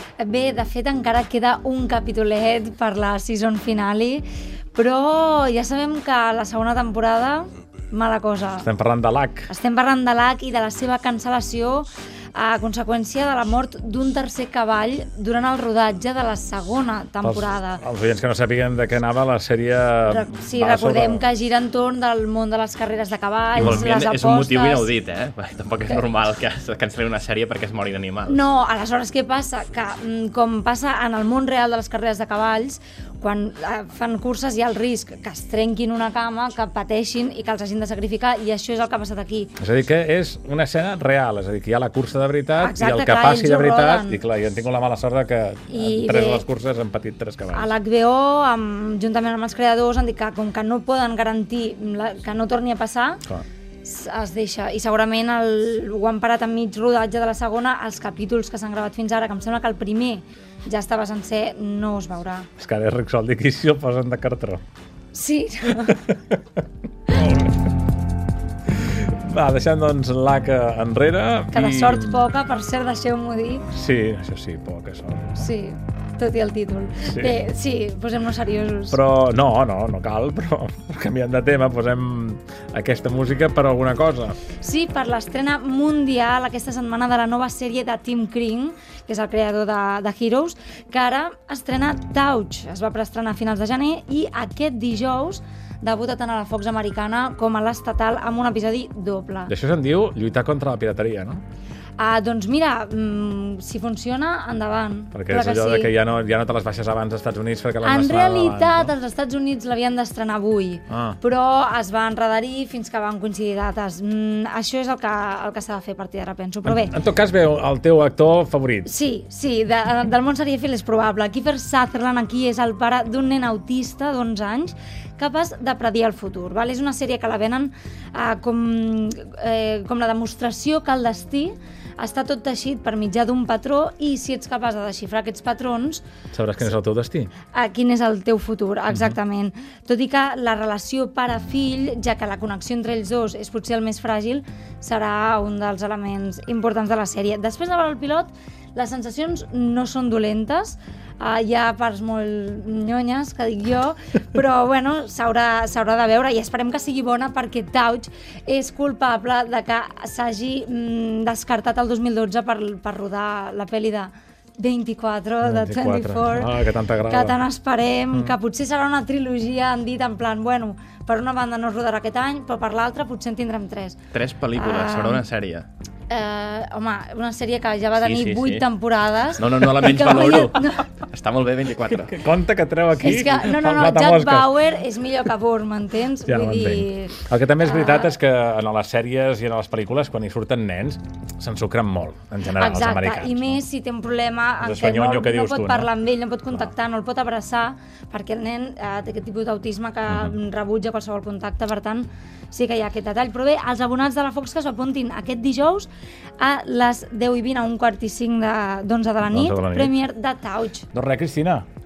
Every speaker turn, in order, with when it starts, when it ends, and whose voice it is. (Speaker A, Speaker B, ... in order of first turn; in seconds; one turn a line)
Speaker A: 0.2-8.7
Speaker B: 8.6-9.5
Speaker A: 9.5-17.8
Speaker B: 17.2-21.2
Speaker A: 20.1-24.9
Speaker C: 23.6-28.5
Speaker A: 28.3-39.5
Speaker B: 39.6-47.7
Speaker A: 42.6-44.2
Speaker A: 45.7-46.4
Speaker A: 47.5-53.2
Speaker A: 53.8-62.5
Speaker B: 62.6-64.6
Speaker A: 65.1-66.0
Speaker B: 65.8-67.7
Speaker B: 68.7-72.3
Speaker A: 71.5-73.7
Speaker B: 73.7-75.5
Speaker A: 75.4-79.0
Speaker B: 77.1-77.4
Speaker B: 78.9-84.4
Speaker A: 84.6-99.5
Speaker B: 99.5-101.4
Speaker A: 102.0-105.9
Speaker B: 105.1-108.9
Speaker A: 107.8-116.9
Speaker B: 110.9-111.2
Speaker B: 116.7-118.9
Speaker A: 118.9-136.0
Speaker B: 136.3-137.3
Speaker A: 137.5-174.0
Speaker B: 165.4-167.4
Speaker C: 174.1-175.7
Speaker A: 174.5-175.3
Speaker A: 176.1-180.9
Speaker C: 178.0-178.7
Speaker C: 179.4-182.2
Speaker B: 181.9-184.6
Speaker A: 183.0-188.1
Speaker B: 186.3-193.6
Speaker A: 192.5-210.9
Speaker B: 194.6-195.9
Speaker B: 200.1-200.4
Speaker B: 209.3-209.9
Speaker B: 210.9-211.7